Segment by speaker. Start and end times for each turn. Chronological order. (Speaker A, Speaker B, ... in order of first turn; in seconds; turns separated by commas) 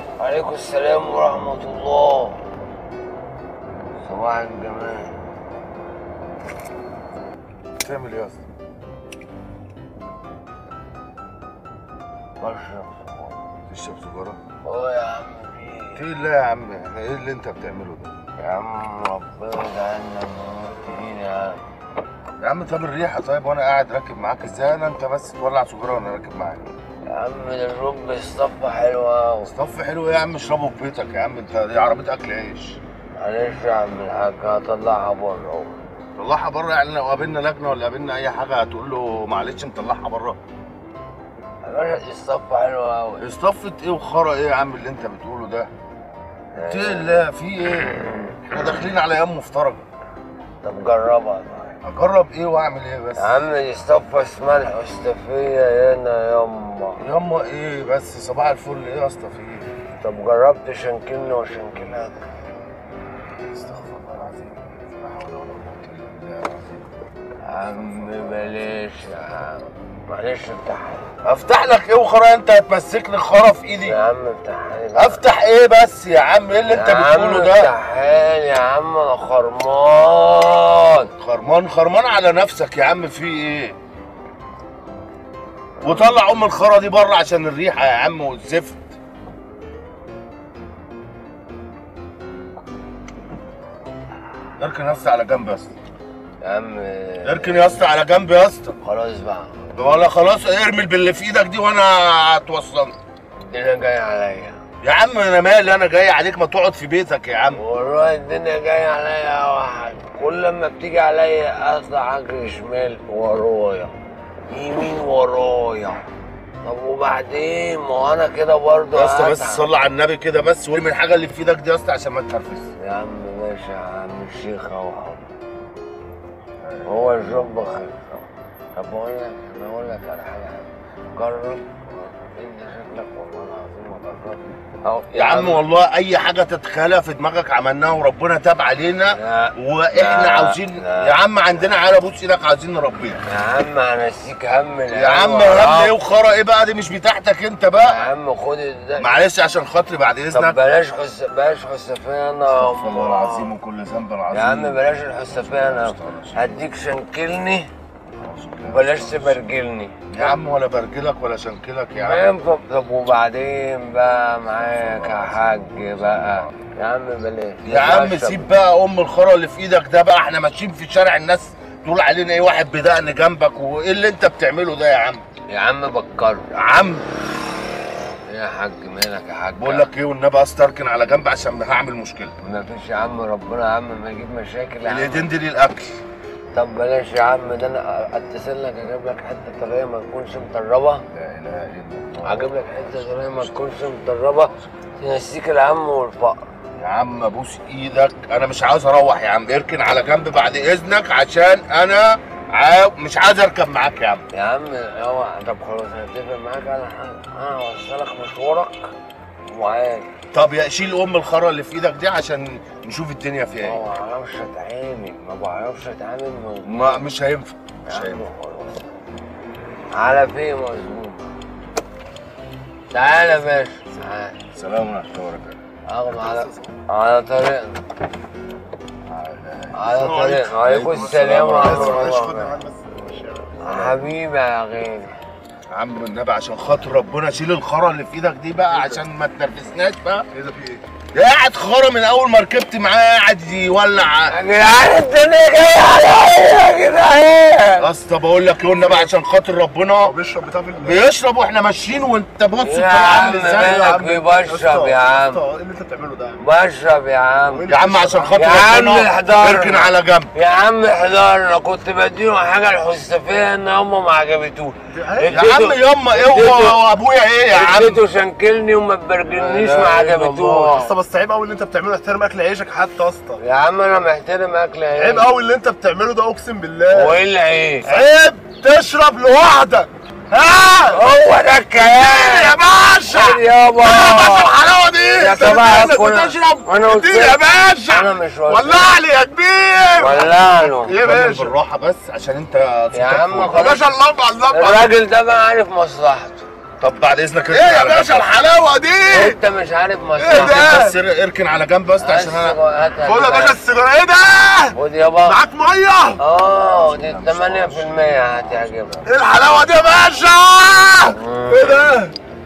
Speaker A: 0.2-2.4, Speaker A: 4.0-5.1, Speaker B: 7.8-8.4, Speaker A: 12.4-13.4, Speaker B: 13.7-14.4, Speaker A: 14.6-16.1, Speaker B: 15.9-18.1, Speaker A: 18.4-21.6, Speaker B: 22.4-26.7, Speaker A: 27.1-29.5, Speaker B: 29.4-32.8, Speaker A: 33.2-35.8, Speaker B: 36.2-40.4, Speaker A: 41.6-43.2, Speaker B: 43.2-45.7, Speaker A: 46.5-47.2, Speaker B: 46.6-49.9, Speaker A: 50.6-51.8, Speaker B: 51.8-53.4, Speaker A: 53.2-57.0, Speaker B: 57.0-59.7, Speaker A: 60.0-62.2, Speaker B: 63.3-66.9, Speaker A: 67.5-71.2, Speaker B: 67.5-68.7, Speaker B: 71.2-74.0, Speaker A: 73.9-75.2, Speaker B: 74.9-77.7, Speaker A: 76.7-81.1, Speaker B: 81.1-83.8, Speaker A: 85.8-86.2, Speaker B: 85.8-89.0, Speaker B: 94.6-95.7, Speaker A: 96.4-97.9, Speaker B: 97.2-98.8, Speaker A: 98.8-99.5, Speaker B: 99.8-102.9, Speaker A: 103.5-104.6, Speaker B: 104.8-107.6, Speaker A: 107.5-113.9, Speaker A: 114.5-116.0, Speaker A: 116.6-119.7, Speaker B: 118.9-122.7, Speaker A: 122.8-125.3, Speaker B: 126.6-127.7, Speaker A: 126.8-135.7, Speaker B: 135.2-143.2, Speaker A: 139.1-141.2, Speaker A: 143.3-145.9, Speaker B: 144.9-148.1, Speaker A: 147.8-149.1, Speaker B: 149.0-150.6, Speaker A: 150.3-153.5, Speaker B: 152.5-156.7, Speaker A: 154.3-157.7, Speaker B: 158.2-159.5, Speaker A: 158.7-160.4, Speaker B: 160.1-162.3, Speaker A: 162.0-168.6, Speaker B: 164.6-166.5, Speaker B: 167.7-175.2, Speaker A: 175.5-176.5, Speaker B: 176.6-177.0, Speaker A: 178.3-179.9, Speaker B: 179.6-182.3, Speaker A: 182.4-185.3, Speaker B: 184.8-186.0, Speaker A: 186.5-191.0, Speaker B: 191.1-193.8, Speaker A: 192.2-196.5, Speaker B: 196.8-204.2, Speaker A: 204.3-208.9, Speaker A: 209.5-210.1, Speaker B: 210.3-213.8, Speaker A: 213.6-217.0, Speaker B: 216.6-218.3, Speaker A: 217.9-218.9, Speaker A: 219.9-221.3, Speaker A: 222.9-224.4, Speaker B: 224.5-225.6, Speaker A: 225.9-227.8, Speaker C: 226.3-226.7, Speaker B: 229.1-232.5, Speaker A: 229.7-232.6, Speaker C: 231.6-233.6, Speaker A: 233.6-235.1, Speaker B: 233.7-234.1, Speaker B: 235.7-240.3, Speaker C: 240.3-240.8, Speaker B: 241.1-244.3, Speaker A: 244.3-247.9, Speaker B: 247.8-250.2, Speaker C: 248.8-249.1, Speaker C: 250.1-251.0, Speaker B: 250.8-254.0, Speaker A: 252.6-255.4, Speaker C: 253.8-256.4, Speaker A: 256.4-257.7, Speaker C: 257.5-258.4, Speaker B: 257.7-260.3, Speaker A: 258.3-266.8, Speaker C: 264.9-265.3, Speaker B: 265.3-268.0, Speaker A: 267.5-270.9, Speaker B: 269.2-270.5, Speaker C: 270.1-273.4, Speaker A: 273.4-275.3, Speaker C: 274.9-277.2, Speaker A: 276.9-277.9, Speaker C: 277.8-281.0, Speaker A: 280.9-284.6, Speaker C: 281.7-291.5, Speaker A: 285.1-289.0, Speaker B: 285.4-286.3, Speaker A: 290.0-291.0, Speaker B: 290.9-293.7, Speaker A: 292.9-293.8, Speaker C: 293.5-294.9, Speaker A: 294.5-296.5, Speaker B: 296.8-298.4, Speaker C: 297.5-299.4, Speaker A: 299.1-301.0, Speaker C: 300.2-301.0, Speaker B: 300.3-302.6, Speaker A: 302.0-303.6, Speaker C: 303.0-306.2, Speaker A: 304.7-305.4, Speaker A: 306.2-308.9, Speaker B: 306.6-309.8, Speaker C: 309.1-312.1, Speaker A: 311.1-311.9